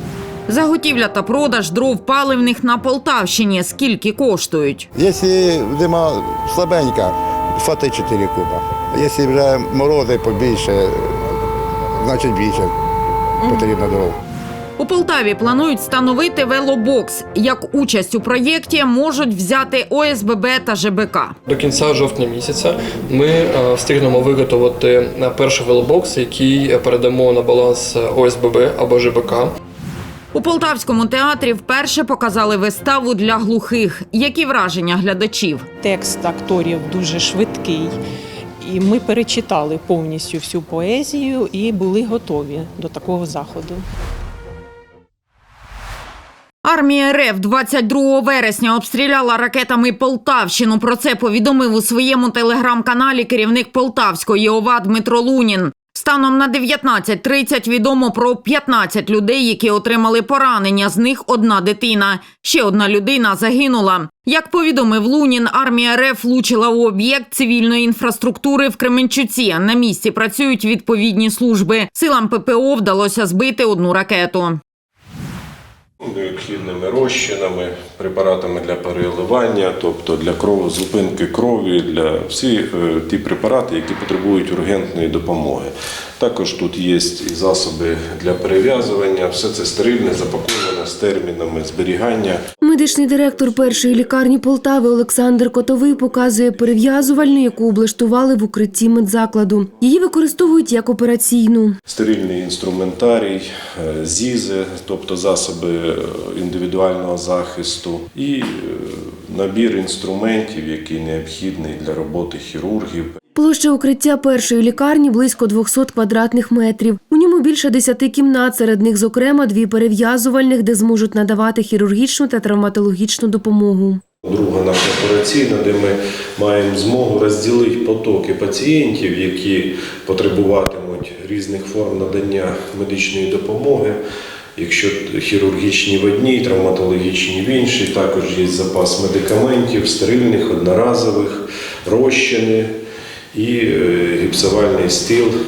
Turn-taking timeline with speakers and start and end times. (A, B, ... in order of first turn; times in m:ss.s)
0:00.5-0:04.8 A
0:04.9-0:11.1 B
0:12.0-0:12.7 B
0:13.4-0:14.2 B
0:14.8-0:21.4 A
0:21.4-0:29.5 C
0:30.3-0:35.6 A
0:35.8-0:37.9 D
0:38.6-0:43.8 D
0:46.6-1:14.6 A
1:16.0-1:32.4 E
1:32.6-1:41.8 F
1:41.9-1:53.1 E
1:53.4-2:04.0 F
2:04.2-2:14.0 E
2:14.6-2:22.7 E
2:23.3-2:25.3 E